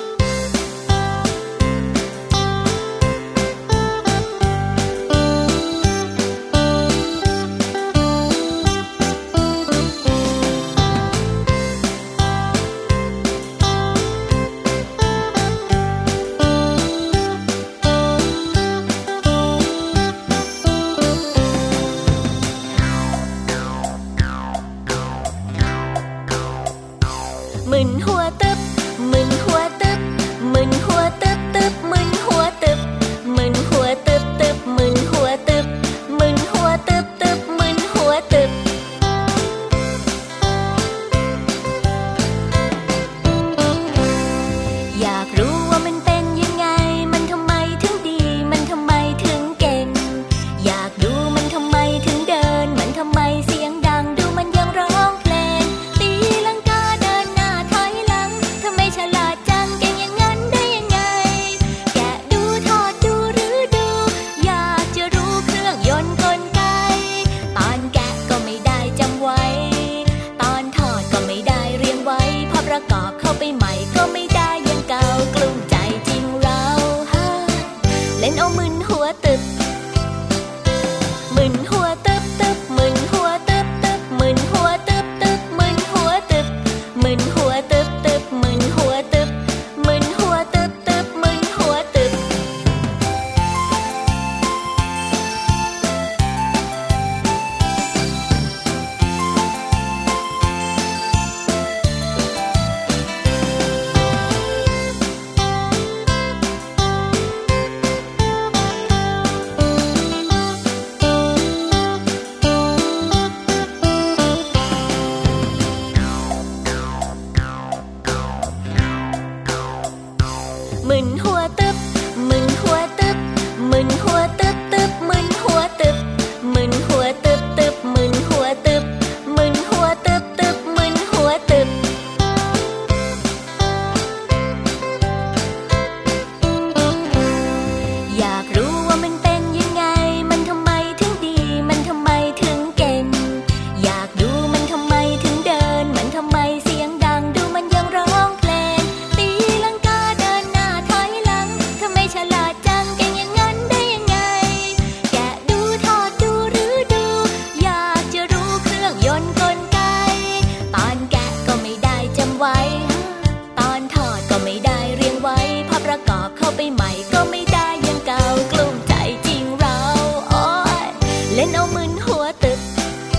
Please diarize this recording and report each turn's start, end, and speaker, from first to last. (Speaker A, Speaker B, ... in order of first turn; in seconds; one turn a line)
Speaker A: 27.6-38.6
Speaker A: 44.9-79.5
Speaker A: 81.3-92.2
Speaker A: 120.8-131.8
Speaker A: 138.1-172.7